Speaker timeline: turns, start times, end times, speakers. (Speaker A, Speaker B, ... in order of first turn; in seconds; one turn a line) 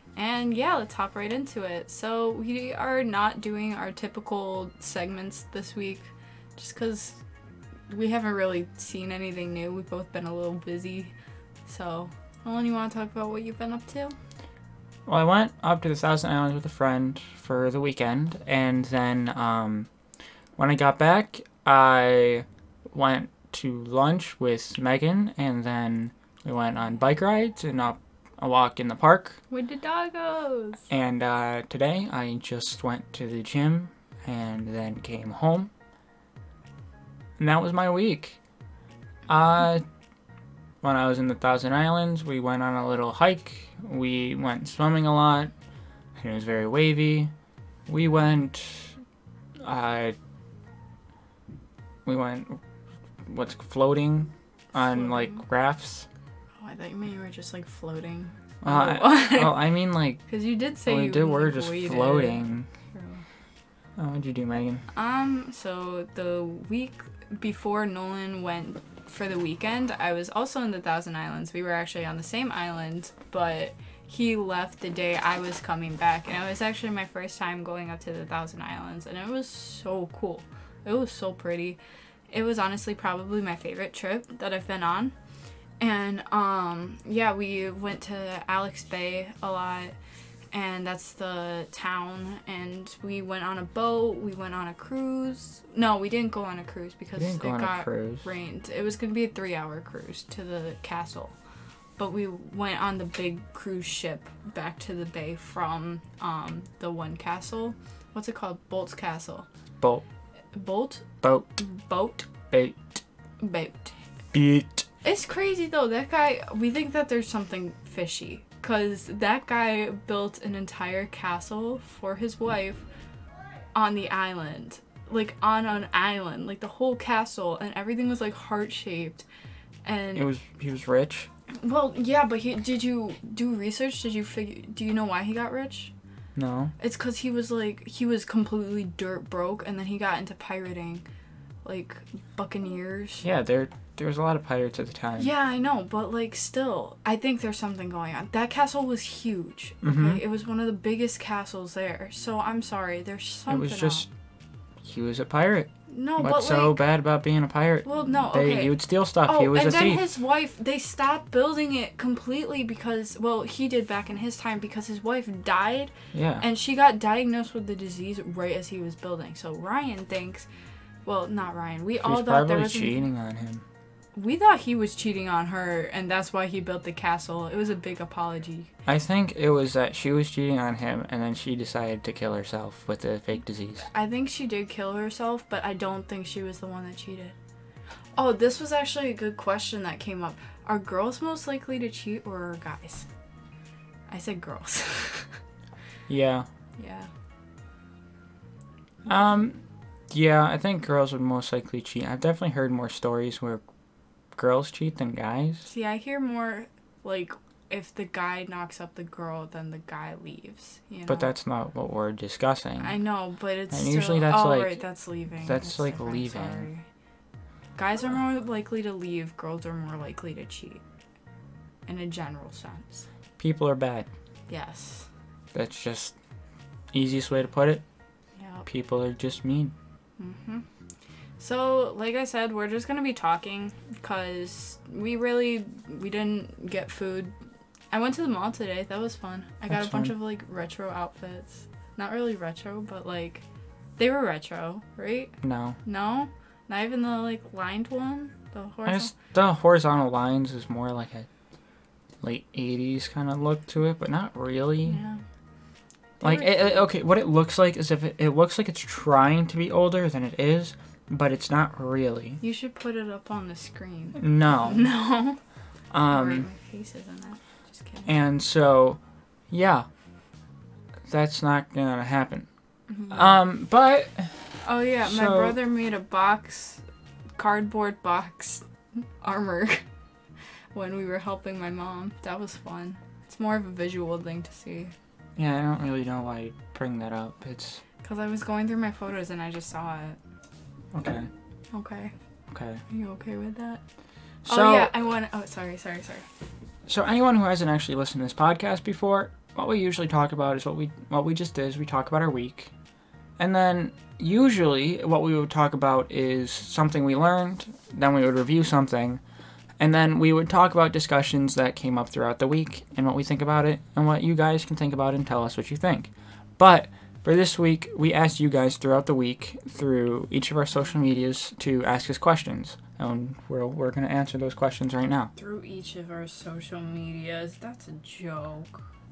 Speaker A: 0.1-7.2
Speaker A: 7.9-11.1
Speaker A: 11.7-14.1
Speaker B: 15.1-19.9
Speaker B: 20.6-29.4
Speaker A: 29.5-30.9
Speaker B: 30.9-35.7
Speaker B: 37.4-38.4
Speaker B: 39.3-39.8
Speaker B: 40.8-45.5
Speaker B: 46.2-47.3
Speaker B: 47.9-48.9
Speaker B: 49.6-50.1
Speaker B: 52.0-52.6
Speaker B: 53.2-56.1
Speaker A: 54.7-55.4
Speaker A: 56.6-59.6
Speaker B: 58.6-60.2
Speaker A: 60.2-63.2
Speaker B: 60.9-62.7
Speaker B: 64.0-64.8
Speaker A: 64.9-81.8
Speaker A: 82.3-85.1
Speaker A: 85.8-90.0
Speaker A: 90.5-101.3
Speaker B: 97.1-98.2
Speaker A: 102.0-109.5
Speaker A: 110.5-111.0
Speaker B: 111.2-111.6
Speaker A: 111.6-112.3
Speaker B: 112.3-113.0
Speaker A: 113.4-113.9
Speaker B: 114.3-114.8
Speaker A: 115.0-122.8
Speaker A: 123.7-129.2
Speaker A: 129.8-130.3
Speaker B: 130.1-131.3
Speaker A: 131.5-135.9
Speaker B: 136.3-136.7
Speaker A: 136.8-141.0
Speaker A: 141.6-143.2
Speaker B: 143.2-145.3
Speaker A: 145.2-154.1
Speaker B: 149.8-150.2
Speaker B: 153.5-154.1
Speaker B: 154.8-160.1
Speaker A: 155.9-156.8
Speaker A: 157.8-170.5
Speaker B: 166.1-166.4
Speaker A: 171.0-173.0
Speaker B: 172.0-173.6
Speaker A: 174.1-178.7
Speaker B: 178.8-183.8
Speaker A: 183.9-187.3
Speaker A: 188.2-193.0
Speaker A: 194.1-195.3
Speaker B: 196.1-196.4
Speaker A: 196.8-197.1
Speaker B: 199.1-199.6
Speaker B: 200.1-203.6
Speaker B: 204.3-205.7
Speaker A: 205.6-211.3
Speaker B: 211.1-212.9
Speaker A: 212.8-216.8
Speaker B: 213.7-214.8
Speaker B: 215.4-216.7
Speaker A: 217.8-220.8
Speaker A: 221.9-223.0
Speaker B: 223.4-224.1
Speaker A: 224.5-225.1
Speaker B: 225.5-226.1
Speaker B: 226.9-227.8
Speaker A: 228.4-228.7
Speaker B: 228.7-229.7
Speaker A: 230.2-230.6
Speaker A: 231.4-237.3
Speaker A: 237.9-243.4
Speaker B: 239.7-240.2
Speaker A: 244.0-249.1
Speaker B: 245.4-245.8
Speaker B: 248.8-251.3
Speaker B: 252.2-255.0
Speaker A: 254.8-255.2
Speaker A: 256.2-256.9
Speaker B: 256.2-262.4
Speaker A: 262.4-265.4
Speaker B: 264.1-264.9
Speaker B: 265.9-266.5
Speaker A: 266.1-268.1
Speaker B: 268.1-269.0
Speaker B: 269.5-269.9
Speaker B: 271.1-272.5
Speaker A: 272.9-273.4
Speaker B: 273.1-274.3
Speaker A: 274.6-276.8
Speaker B: 275.0-275.6
Speaker A: 277.4-278.6
Speaker A: 279.2-279.8
Speaker A: 280.7-284.9
Speaker B: 285.4-287.8
Speaker A: 288.0-290.2
Speaker B: 290.9-291.3
Speaker A: 291.7-292.1
Speaker B: 292.5-292.8
Speaker A: 292.9-293.8
Speaker B: 294.4-294.9
Speaker A: 294.4-296.2
Speaker B: 296.9-302.7
Speaker B: 303.4-309.2
Speaker B: 309.8-325.3
Speaker A: 325.4-328.8